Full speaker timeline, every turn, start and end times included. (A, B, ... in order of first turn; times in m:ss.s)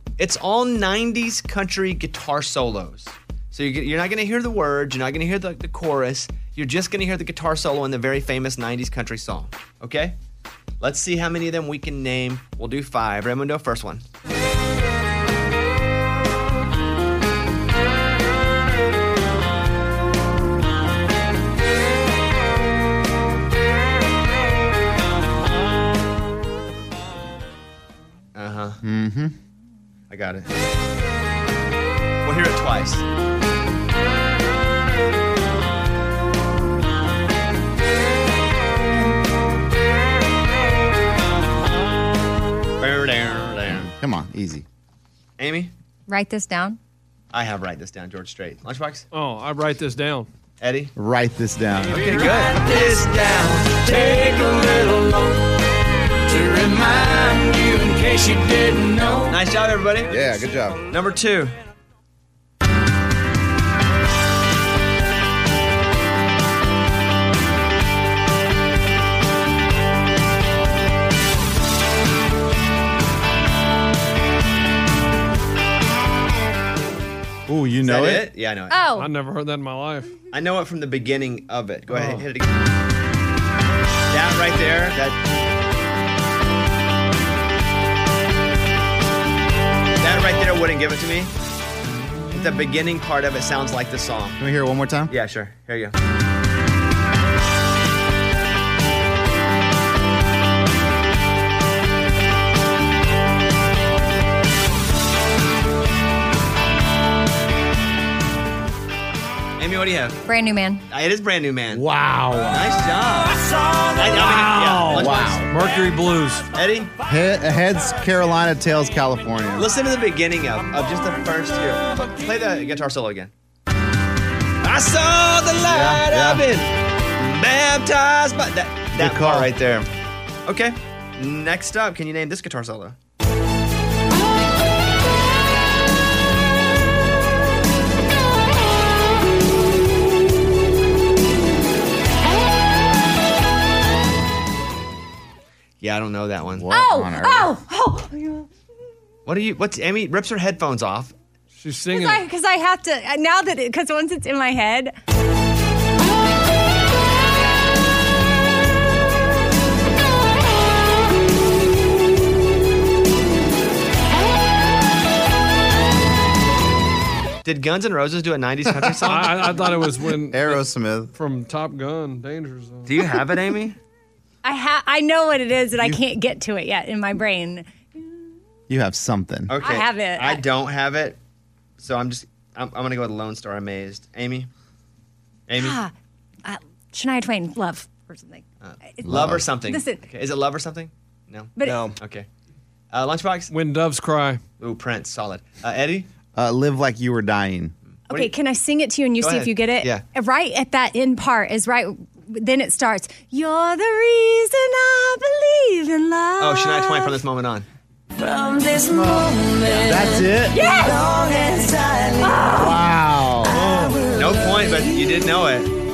0:00.2-0:10.2 A
0:10.8-0:14.0 A
0:28.4-0:28.8 A
0:28.8-0:29.3 B
0:30.1-0:30.5 A
0:32.2-0:33.0 A
0:42.8-0:43.9 A
0:43.7-0:44.6 B
0:45.4-0:45.7 A
0:46.1-0:46.8 C
0:47.3-0:49.1 A
0:49.1-0:50.3 D
0:50.6-0:50.9 A
0:51.0-0:52.2 B
0:51.9-0:53.9 A
0:56.4-0:59.3 E
0:59.3-1:00.1 A
1:00.1-1:00.8 B
1:00.9-1:01.5 A
1:17.5-1:18.3 B
1:17.8-1:18.8 A
1:18.7-1:19.1 C
1:19.0-1:20.1 D
1:20.3-1:22.5 A
1:24.1-1:25.2 A
1:30.0-1:31.3 A
1:32.3-1:34.4 A
1:34.4-1:35.1 B
1:35.1-1:35.9 A
1:49.6-1:50.2 A
1:50.3-1:50.8 C
1:50.9-1:51.9 A
1:51.7-1:52.7 B
1:52.5-1:53.4 A
1:53.9-1:55.4 A
1:54.2-1:56.4 D
1:54.9-1:55.5 B
1:56.5-1:56.9 A
1:57.1-1:59.7 B
1:59.6-2:03.3 A
2:04.6-2:09.9 A
2:05.6-2:06.4 B
2:09.0-2:09.5 B
2:10.5-2:13.0 A
2:25.8-2:26.7 A
2:26.5-2:27.5 B
2:26.7-2:28.5 C
2:29.3-2:31.1 A
2:31.6-2:32.2 D
2:31.9-2:34.9 C
2:47.4-2:49.5 A
2:49.0-2:50.6 D
2:50.3-2:51.1 B
2:51.2-2:52.9 D
2:52.9-2:53.8 A
2:54.4-2:58.2 C
2:58.7-2:59.5 B
2:59.5-3:01.2 A
2:59.6-3:00.4 C
3:01.8-3:04.5 A
3:05.5-3:05.8 A
3:05.6-3:05.9 C
3:06.4-3:10.0 C
3:08.6-3:12.3 A
3:09.0-3:09.4 B
3:11.6-3:11.8 C
3:11.6-3:11.9 E
3:12.9-3:13.5 A
3:13.5-3:14.4 D
3:14.6-3:16.1 A
3:16.4-3:17.7 B
3:18.1-3:27.2 C
3:19.2-3:20.0 A
3:26.4-3:27.7 A
3:28.9-3:30.6 B
3:30.5-3:31.1 C
3:32.2-3:32.7 C
3:32.5-3:33.6 B
3:33.6-3:35.7 A